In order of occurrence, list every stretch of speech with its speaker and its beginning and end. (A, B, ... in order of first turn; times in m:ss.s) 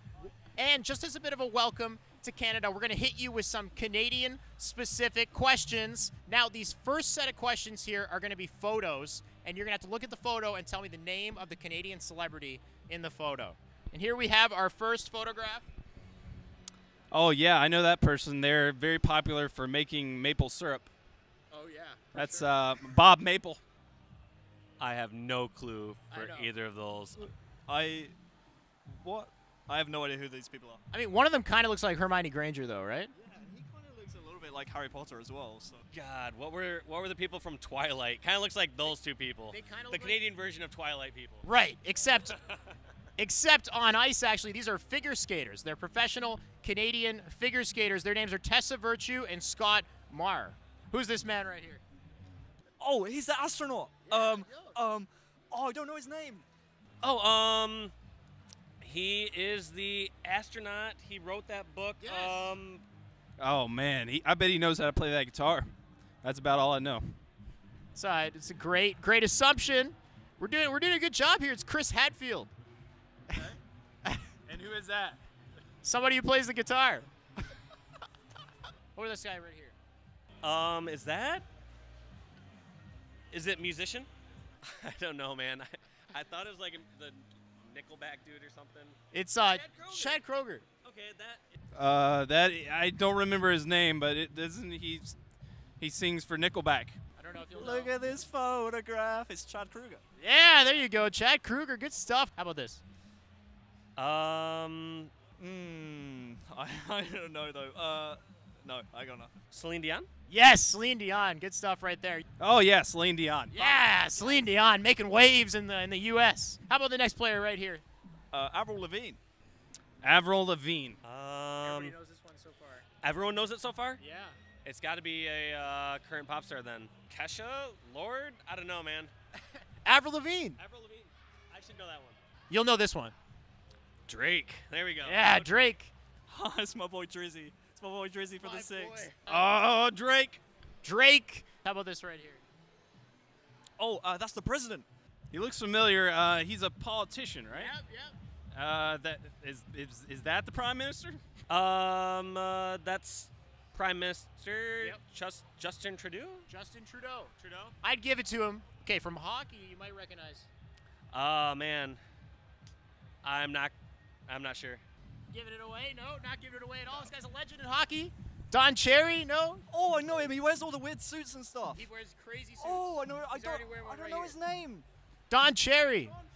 0:00.5-0:15.7 A
0:17.1-0:20.9 B
0:21.5-0:22.5 A
0:22.1-0:23.6 B
0:24.8-0:27.3 C
0:26.1-0:26.5 A
0:27.7-0:28.1 D
0:28.9-0:30.8 D
0:30.9-0:33.1 A
0:33.1-0:35.8 D
0:35.9-0:41.4 C
0:39.5-0:40.2 A
0:41.4-0:42.4 A
0:43.2-0:51.8 A
0:52.8-0:56.4 D
0:54.1-0:54.8 A
0:57.0-0:57.9 C
0:58.8-1:02.8 C
1:02.0-1:02.5 A
1:03.4-1:05.7 B
1:06.2-1:07.2 B
1:08.0-1:12.5 A
1:13.3-1:13.6 B
1:14.5-1:15.2 B
1:15.8-1:17.1 A
1:19.0-1:19.8 A
1:20.4-1:21.4 C
1:23.3-1:24.1 C
1:24.6-1:29.0 C
1:29.1-1:30.6 A
1:29.5-1:30.2 C
1:30.8-1:31.6 C
1:31.8-1:35.2 B
1:35.8-1:37.0 B
1:37.2-1:38.0 A
1:37.5-1:40.0 D
1:40.2-1:42.8 A
1:44.0-1:45.1 C
1:45.4-1:49.3 D
1:49.5-1:50.1 C
1:50.3-1:52.2 A
1:52.4-1:53.7 B
1:53.5-1:57.8 A
1:58.3-1:59.2 D
2:00.0-2:01.0 B
2:01.0-2:02.0 C
2:01.6-2:02.8 A
2:03.0-2:04.0 C
2:04.0-2:04.4 A
2:04.6-2:09.1 C
2:09.8-2:10.6 A
2:10.6-2:12.2 C
2:12.5-2:13.1 A
2:14.1-2:15.5 C
2:15.0-2:15.9 A
2:16.3-2:19.1 D
2:18.4-2:19.5 A
2:19.2-2:20.4 B
2:20.8-2:22.4 A
2:23.8-2:24.9 D
2:25.3-2:27.7 B
2:27.5-2:28.2 A
2:28.5-2:31.2 B
2:31.5-2:36.5 C
2:36.5-2:40.5 A
2:41.1-2:42.0 C
2:43.2-2:43.7 C
2:44.3-2:44.8 C
2:45.3-2:49.7 A
2:49.7-2:51.8 D
2:51.7-2:54.4 A
2:52.6-2:54.8 D
2:55.3-2:56.1 A